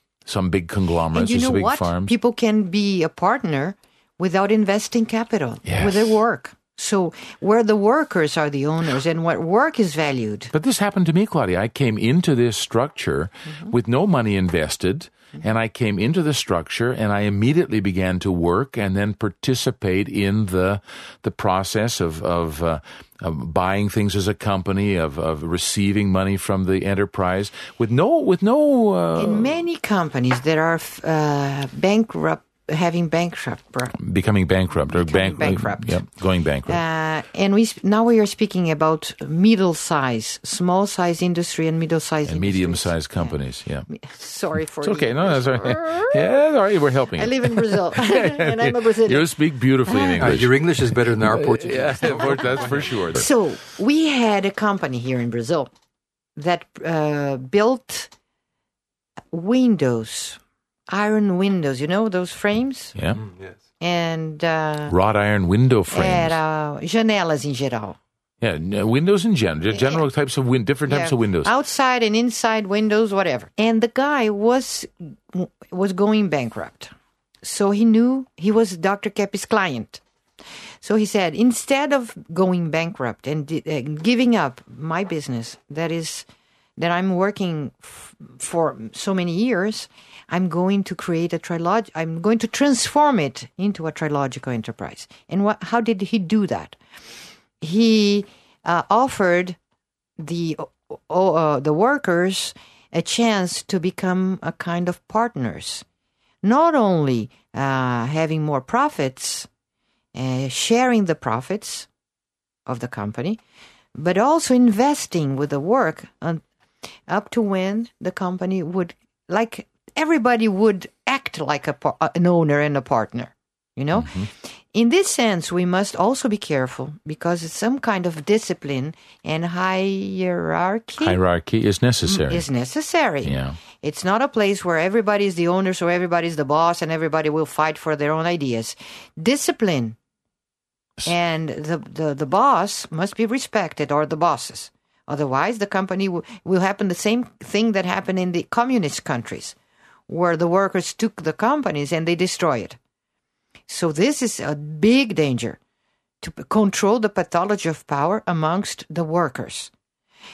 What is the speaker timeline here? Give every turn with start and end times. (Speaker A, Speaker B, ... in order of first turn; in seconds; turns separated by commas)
Speaker A: 0.3-2.1, Speaker B: 1.1-10.5, Speaker A: 5.7-6.2, Speaker A: 10.5-29.6, Speaker B: 29.2-33.9, Speaker A: 33.9-36.8, Speaker B: 34.8-36.0, Speaker B: 36.7-43.4, Speaker A: 42.2-43.9, Speaker B: 43.9-46.4, Speaker A: 44.8-53.3, Speaker B: 47.2-49.3, Speaker B: 49.9-50.4, Speaker C: 50.2-53.1, Speaker B: 52.0-55.7, Speaker B: 56.4-58.1, Speaker B: 59.3-63.0, Speaker A: 63.0-63.2, Speaker C: 63.2-63.6, Speaker B: 63.8-65.0, Speaker A: 64.9-66.4, Speaker B: 65.9-68.0, Speaker A: 68.4-71.5, Speaker B: 69.7-70.0, Speaker B: 70.9-80.0, Speaker B: 80.8-86.3, Speaker B: 86.8-96.8, Speaker B: 97.6-99.6, Speaker B: 100.2-105.8, Speaker B: 106.4-109.5, Speaker B: 110.1-111.9, Speaker B: 112.7-113.4, Speaker B: 114.0-116.4, Speaker B: 117.1-131.2, Speaker A: 124.0-124.3, Speaker A: 131.0-132.5, Speaker B: 132.1-140.0, Speaker A: 133.2-133.6, Speaker B: 141.1-149.6, Speaker B: 150.1-152.8, Speaker B: 153.7-155.6, Speaker B: 156.2-159.7